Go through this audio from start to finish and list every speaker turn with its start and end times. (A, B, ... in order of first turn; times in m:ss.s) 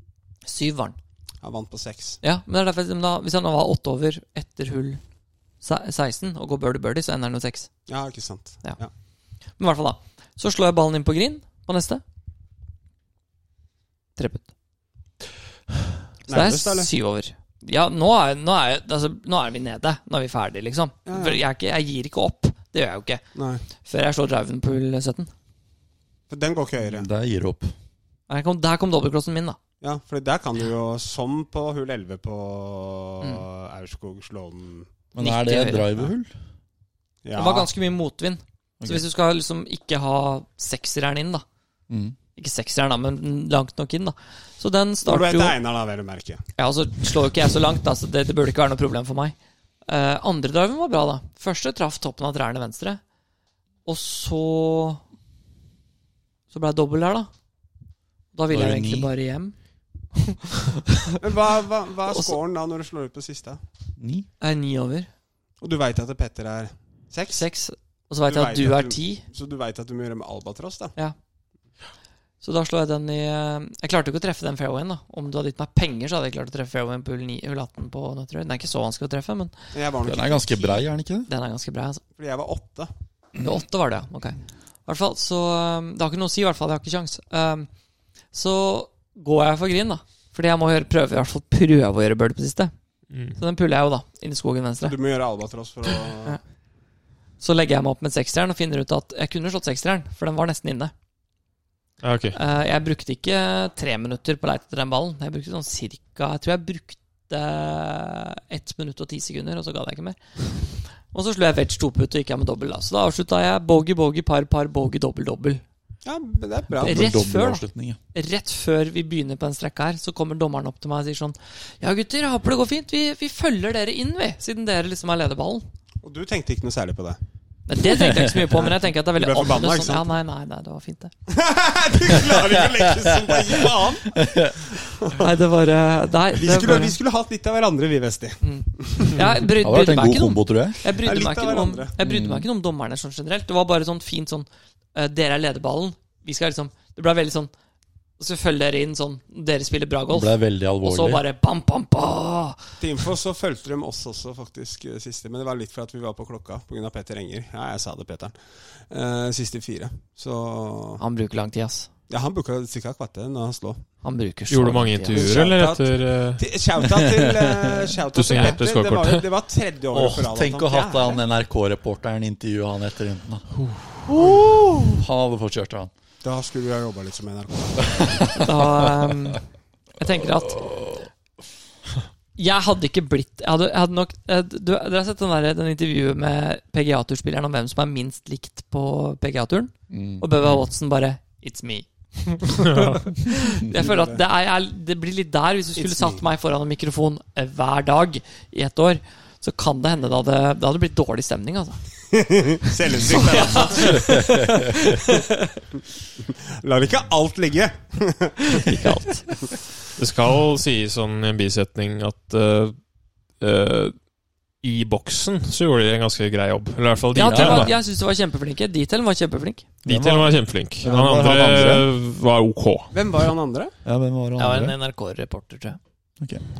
0:00.4-0:01.0 A
0:01.4-0:02.2 B
0:02.2-0:05.0 A
0:05.6-0:07.7 A
0:07.9-0:08.9 B
0:09.6-0:12.0 A
0:14.2-0:14.5 A
0:16.3-0:16.9 B
0:16.3-0:23.2 A
0:21.1-0:21.4 B
0:23.4-0:23.6 B
0:23.8-0:25.3 A
0:26.3-0:27.1 B
0:26.8-0:27.7 C
0:28.3-0:29.6 A
0:29.8-0:34.9 B
0:35.1-0:36.3 C
0:35.2-0:36.1 A
0:37.2-0:37.7 B
0:37.4-0:41.4 A
0:38.8-0:39.0 C
0:41.9-0:42.2 C
0:42.4-0:45.6 A
0:45.0-0:46.4 B
0:46.6-0:53.0 A
0:53.8-0:55.0 A
0:56.5-0:57.3 A
0:58.3-0:59.6 A
0:58.5-0:59.1 C
1:00.2-1:01.2 A
1:01.2-1:03.6 B
1:02.1-1:02.4 A
1:04.0-1:04.3 C
1:04.4-1:05.1 A
1:05.6-1:07.4 B
1:07.3-1:09.2 A
1:08.3-1:10.9 B
1:12.4-1:19.5 A
1:19.7-1:20.8 B
1:20.0-1:21.3 C
1:21.3-1:22.0 A
1:22.2-1:22.9 B
1:23.4-1:27.7 A
1:28.3-1:32.7 A
1:33.1-1:33.4 D
1:33.4-1:35.0 A
1:34.8-1:36.4 B
1:37.4-1:40.9 A
1:42.0-1:42.4 D
1:42.4-1:55.6 A
1:56.0-1:57.2 B
1:56.8-1:58.0 C
1:56.8-2:05.6 A
2:06.0-2:07.2 B
2:07.7-2:11.1 A
2:08.6-2:10.1 B
2:11.3-2:15.3 B
2:14.1-2:14.6 C
2:15.2-2:17.0 A
2:16.3-2:19.3 B
2:18.4-2:27.5 A
2:19.6-2:20.8 C
2:20.9-2:21.9 B
2:22.0-2:22.5 C
2:28.2-2:32.6 A
2:30.1-2:31.2 C
2:32.8-2:41.0 B
2:41.0-2:41.9 A
2:42.1-2:43.8 B
2:44.0-2:45.5 A
2:44.5-2:46.4 D
2:45.1-2:51.2 B
2:46.8-2:47.9 C
2:48.1-2:49.3 D
2:48.3-2:48.6 A
2:49.9-2:55.9 C
2:53.6-2:53.9 D
2:56.2-2:58.4 B
2:57.8-2:59.1 C
2:58.4-2:59.4 A
3:00.0-3:00.8 A
3:00.4-3:01.1 C
3:02.4-3:21.8 A
3:09.9-3:10.2 C
3:12.5-3:13.2 D
3:13.7-3:14.2 B
3:15.8-3:16.3 B
3:22.1-3:24.2 B
3:23.1-3:25.5 A
3:23.9-3:24.7 C
3:26.2-3:28.9 B
3:28.7-3:29.3 A
3:29.9-3:32.8 D
3:33.4-3:34.1 D
3:34.6-3:37.7 D
3:37.2-3:39.7 A
3:37.2-3:37.7 C
3:39.8-3:41.9 C
3:39.8-3:43.2 D
3:42.9-3:43.7 B
3:43.8-3:44.8 C
3:44.4-3:45.8 A